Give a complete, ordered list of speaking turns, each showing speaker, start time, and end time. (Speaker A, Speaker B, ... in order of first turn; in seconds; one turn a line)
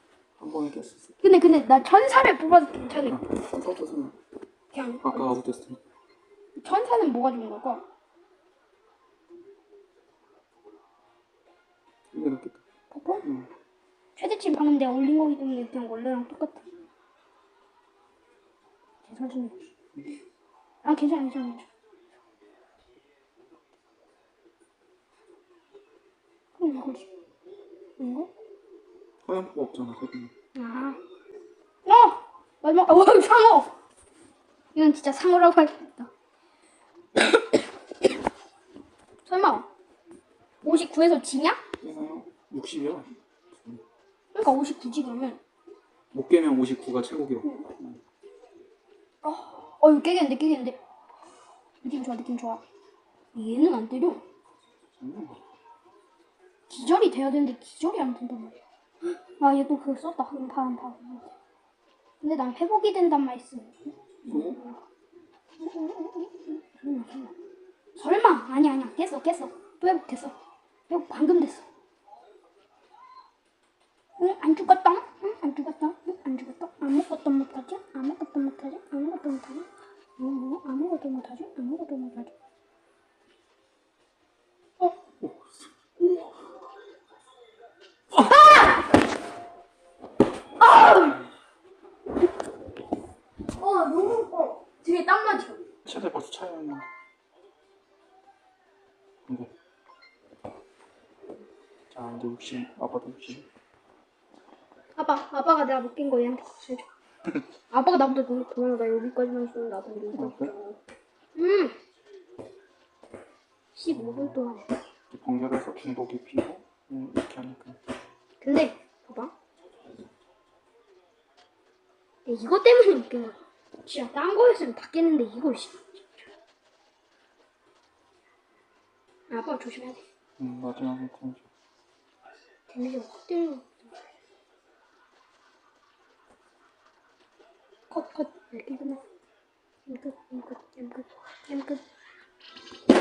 Speaker A: 0.4-1.4
Speaker B: 1.2-3.2
Speaker A: 3.0-4.2
Speaker B: 4.7-5.3
Speaker A: 5.0-5.8
Speaker B: 6.6-7.8
Speaker A: 12.1-12.6
Speaker B: 12.9-13.2
Speaker A: 13.2-13.5
Speaker B: 14.2-16.7
Speaker B: 19.1-19.6
Speaker B: 20.8-21.7
Speaker B: 26.6-27.1
Speaker B: 28.0-28.3
Speaker A: 29.2-30.3
Speaker B: 30.5-31.0
Speaker B: 31.9-33.7
Speaker B: 34.7-36.1
Speaker B: 39.2-39.7
Speaker B: 40.6-41.6
Speaker A: 41.8-43.8
Speaker B: 44.3-45.4
Speaker A: 46.1-48.0
Speaker B: 47.4-47.7
Speaker B: 49.2-50.8
Speaker B: 51.8-52.6
Speaker B: 53.3-54.2
Speaker A: 55.0-55.4
Speaker B: 56.7-58.6
Speaker B: 59.3-61.3
Speaker B: 62.2-63.7
Speaker A: 64.2-64.6
Speaker B: 64.2-64.7
Speaker B: 65.6-67.3
Speaker B: 68.0-70.3
Speaker B: 70.9-71.6
Speaker B: 74.2-82.3
Speaker A: 85.2-85.7
Speaker B: 88.2-88.8
Speaker B: 90.6-91.2
Speaker B: 93.5-95.6
Speaker A: 95.8-96.8
Speaker A: 101.9-103.5
Speaker B: 105.0-106.9
Speaker B: 107.7-110.8
Speaker A: 110.1-110.5
Speaker B: 111.3-111.7
Speaker B: 113.7-114.7
Speaker A: 115.1-117.8
Speaker B: 118.4-119.3
Speaker B: 122.2-126.2
Speaker B: 129.3-130.0
Speaker A: 130.4-131.4
Speaker B: 132.7-133.8
Speaker B: 137.9-139.0
Speaker B: 139.9-141.8